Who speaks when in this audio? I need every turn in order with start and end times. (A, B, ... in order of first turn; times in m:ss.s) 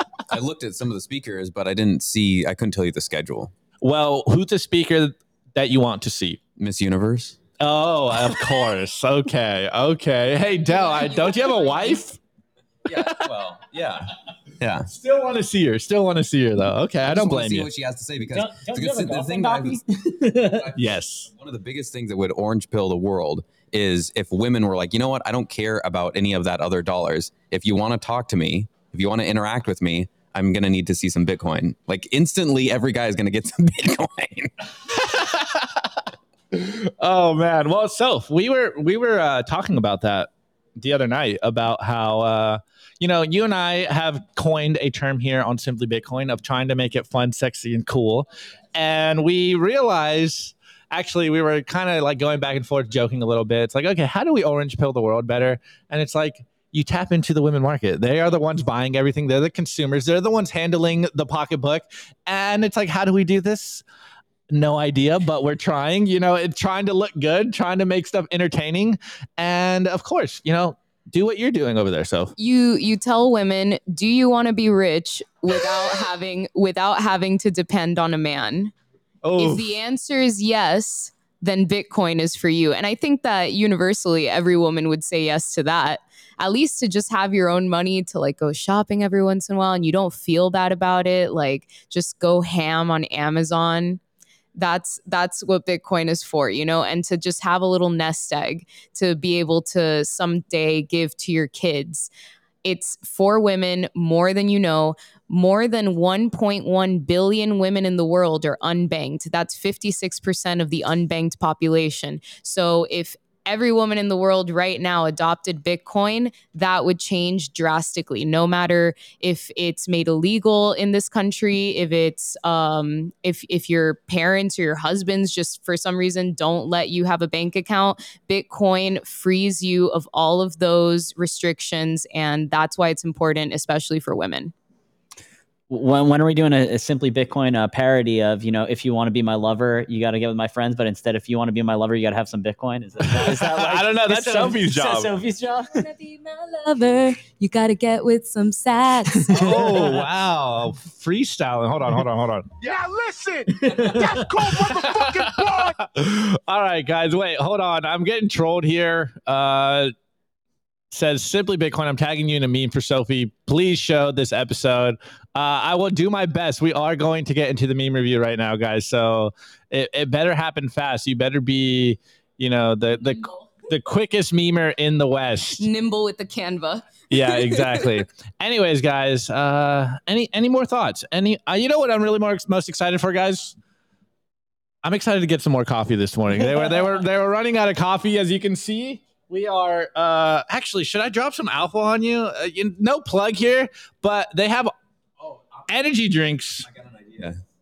0:00.3-0:03.5 A
0:03.8-0:06.4 B
0:06.6-0:07.4 A
0:07.6-0:12.2 B
0:10.6-0:11.9 C
0:12.8-0:14.9 A
0:13.0-0:13.3 B
0:14.9-0:17.7 B
0:17.0-0:19.8 A
0:18.3-0:20.7 D
0:20.4-0:34.5 A
0:20.7-0:21.3 B
0:34.9-0:35.8 B
0:36.5-1:03.8 B
1:04.5-1:12.3 B
1:12.4-1:18.7 C
1:19.2-1:19.7 B
1:19.4-1:34.0 C
1:34.5-1:42.1 C
1:42.6-2:14.5 C
2:15.7-2:25.9 D
2:23.0-2:25.1 B
2:25.7-2:29.7 C
2:29.1-2:29.9 D
2:29.3-2:32.5 B
2:32.7-2:34.2 E
2:33.6-2:34.5 D
2:34.2-2:39.9 B
2:34.9-2:35.6 E
2:40.9-2:55.6 B
2:53.0-2:53.5 C
2:55.6-2:57.8 C
2:57.1-3:03.5 B
3:04.8-3:14.7 B
3:15.7-3:16.7 B
3:16.8-3:17.4 A